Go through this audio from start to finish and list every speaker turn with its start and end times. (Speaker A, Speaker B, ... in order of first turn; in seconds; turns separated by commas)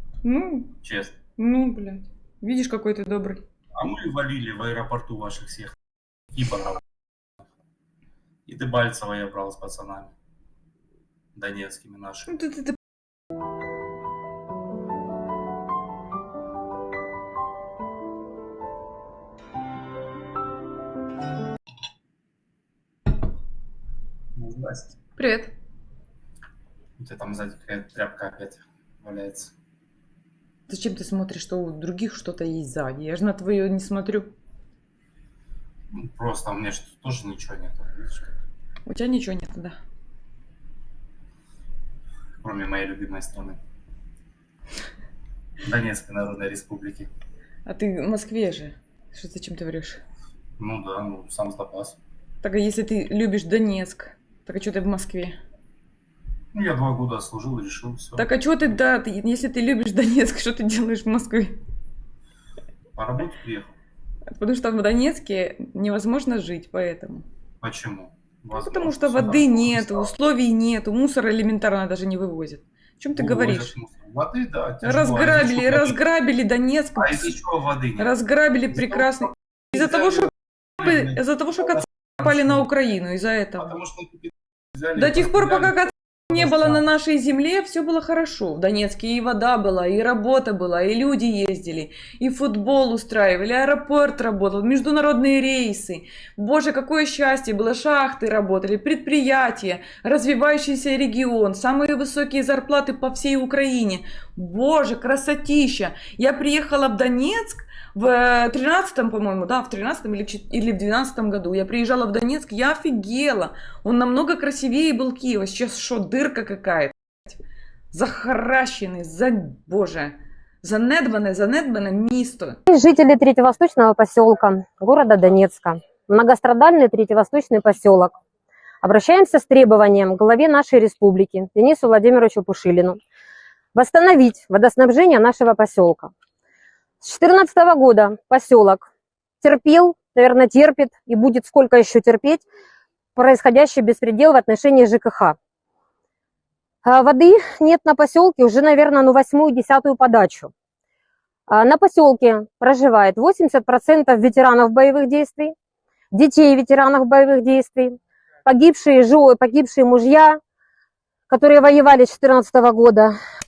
Speaker A: 0.2-0.7, Speaker B: 0.8-1.2, Speaker A: 1.4-3.4, Speaker B: 3.7-5.7, Speaker B: 6.3-6.8, Speaker B: 8.4-10.1, Speaker B: 11.3-12.4, Speaker A: 12.3-12.8, Speaker B: 24.4-24.9, Speaker A: 25.2-25.5, Speaker B: 27.0-29.5, Speaker A: 30.7-34.3, Speaker B: 35.9-38.3, Speaker A: 38.9-39.8, Speaker B: 42.4-43.6, Speaker B: 45.6-47.1, Speaker A: 47.6-50.0, Speaker B: 50.6-52.0, Speaker A: 52.4-55.4, Speaker B: 56.5-58.7, Speaker A: 58.2-61.6, Speaker B: 62.9-63.8, Speaker A: 64.3-67.3, Speaker B: 67.6-70.1, Speaker A: 68.5-73.7, Speaker B: 73.1-76.0, Speaker A: 74.8-77.3, Speaker B: 77.0-78.1, Speaker A: 78.0-83.7, Speaker B: 78.7-82.7, Speaker B: 83.6-86.8, Speaker A: 85.0-117.4, Speaker A: 117.9-122.6, Speaker C: 122.7-128.2, Speaker C: 128.8-133.0, Speaker C: 133.7-136.1, Speaker C: 137.0-138.9, Speaker C: 139.4-142.4, Speaker C: 143.2-145.4, Speaker C: 146.8-150.5, Speaker C: 151.5-155.5, Speaker C: 156.1-160.4, Speaker C: 161.3-163.1